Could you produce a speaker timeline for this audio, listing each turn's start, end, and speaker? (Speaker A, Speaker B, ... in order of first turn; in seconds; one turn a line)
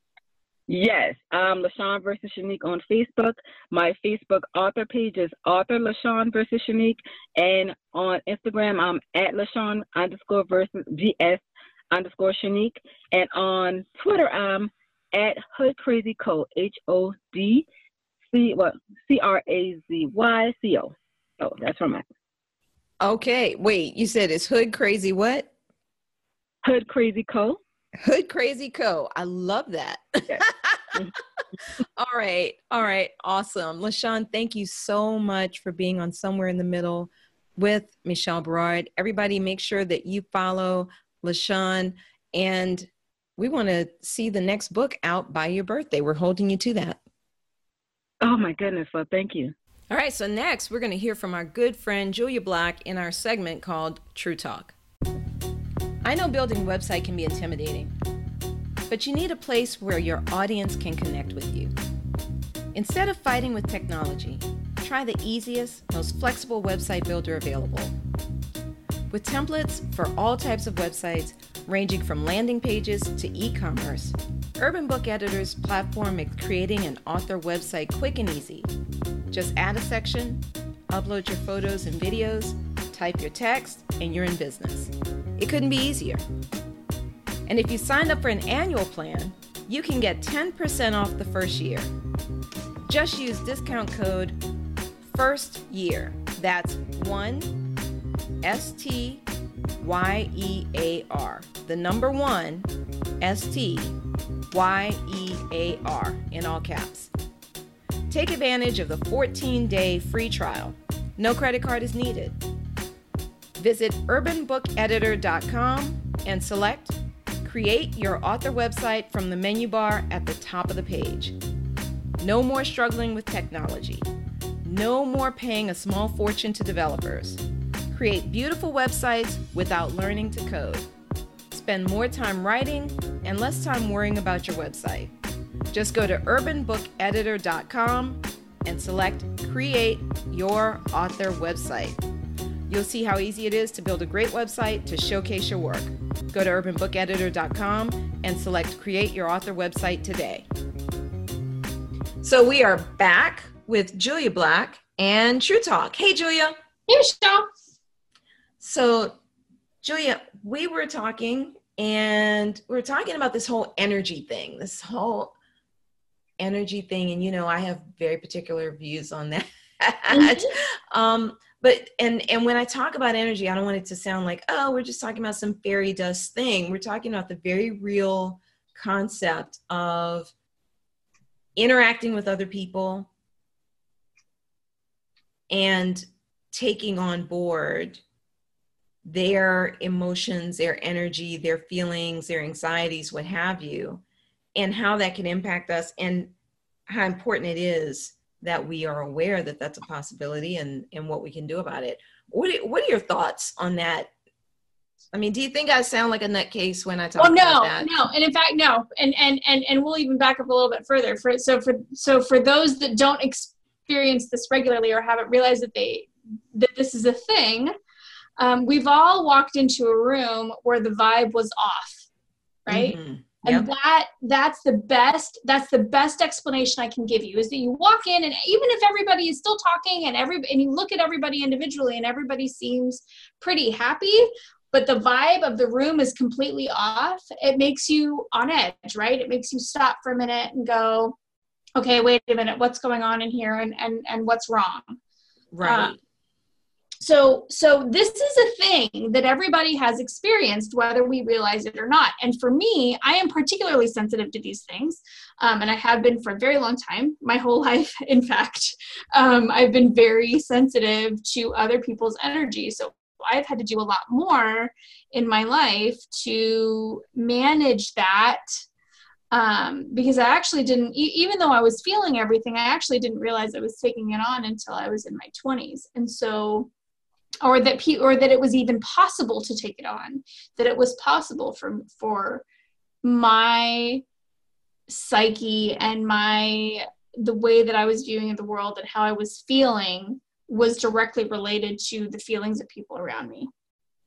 Speaker A: 0.7-17.6
Speaker A: 18.2-22.0
Speaker B: 23.0-25.5
Speaker A: 26.6-27.6
Speaker B: 28.0-31.0
Speaker A: 30.3-31.1
Speaker B: 32.0-47.0
Speaker A: 48.2-49.5
Speaker B: 49.9-54.8
Speaker B: 56.0-57.9
Speaker B: 58.9-61.7
Speaker B: 62.7-67.9
Speaker B: 69.1-78.7
Speaker B: 79.3-86.2
Speaker B: 87.5-91.9
Speaker B: 92.9-94.4
Speaker B: 95.0-97.6
Speaker B: 98.4-99.2
Speaker B: 99.8-102.7
Speaker B: 103.2-104.0
Speaker B: 104.5-107.1
Speaker B: 108.1-112.4
Speaker B: 113.6-121.3
Speaker B: 122.2-124.1
Speaker B: 124.6-130.9
Speaker B: 131.5-135.1
Speaker B: 135.7-142.0
Speaker B: 142.7-150.4
Speaker B: 152.2-156.5
Speaker C: 156.9-157.5
Speaker B: 158.6-159.2
Speaker B: 159.8-165.3
Speaker B: 166.4-180.3
Speaker C: 170.1-170.5
Speaker B: 181.6-183.1
Speaker B: 185.5-188.0
Speaker B: 189.0-194.0
Speaker B: 194.6-196.3
Speaker B: 196.9-204.1
Speaker B: 205.1-207.9
Speaker C: 207.2-217.7
Speaker C: 218.4-222.1
Speaker C: 222.7-241.2
Speaker B: 222.7-223.7
Speaker C: 241.8-245.0
Speaker B: 245.5-246.0
Speaker C: 245.6-245.9
Speaker C: 247.0-268.4
Speaker C: 269.3-276.7
Speaker C: 277.4-282.4
Speaker C: 283.0-284.0
Speaker C: 284.9-293.5